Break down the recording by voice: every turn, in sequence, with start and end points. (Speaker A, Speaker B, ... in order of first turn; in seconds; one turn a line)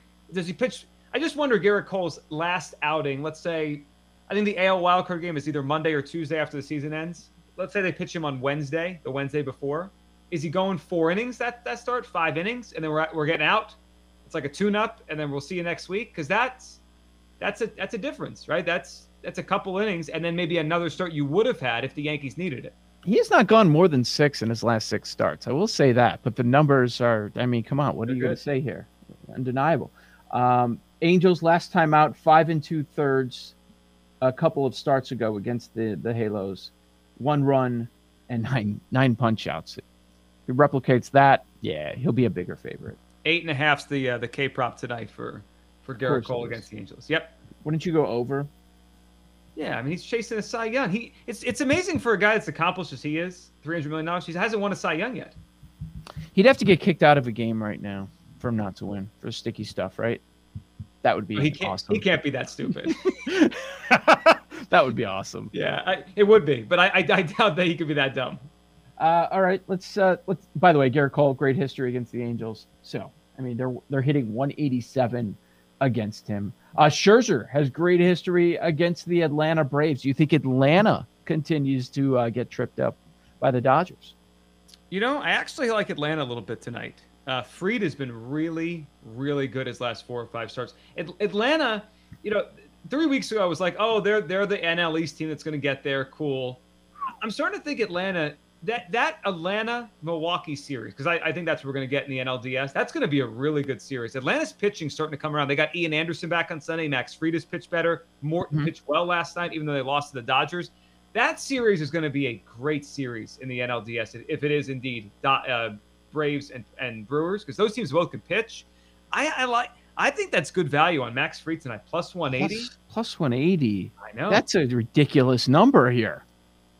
Speaker A: 0.3-16.8
Speaker A: 17.4-22.7
Speaker B: 23.0-33.5
Speaker A: 28.1-28.4
Speaker B: 34.2-39.8
Speaker B: 40.5-43.0
Speaker A: 43.2-47.3
Speaker B: 46.0-46.6
Speaker B: 47.6-48.5
Speaker A: 49.5-55.4
Speaker B: 56.3-60.2
Speaker B: 61.0-62.0
Speaker A: 61.3-63.1
Speaker B: 62.8-65.5
Speaker A: 65.5-68.5
Speaker B: 69.0-84.1
Speaker A: 84.9-96.6
Speaker A: 97.2-122.7
Speaker B: 122.3-126.2
Speaker A: 124.0-124.4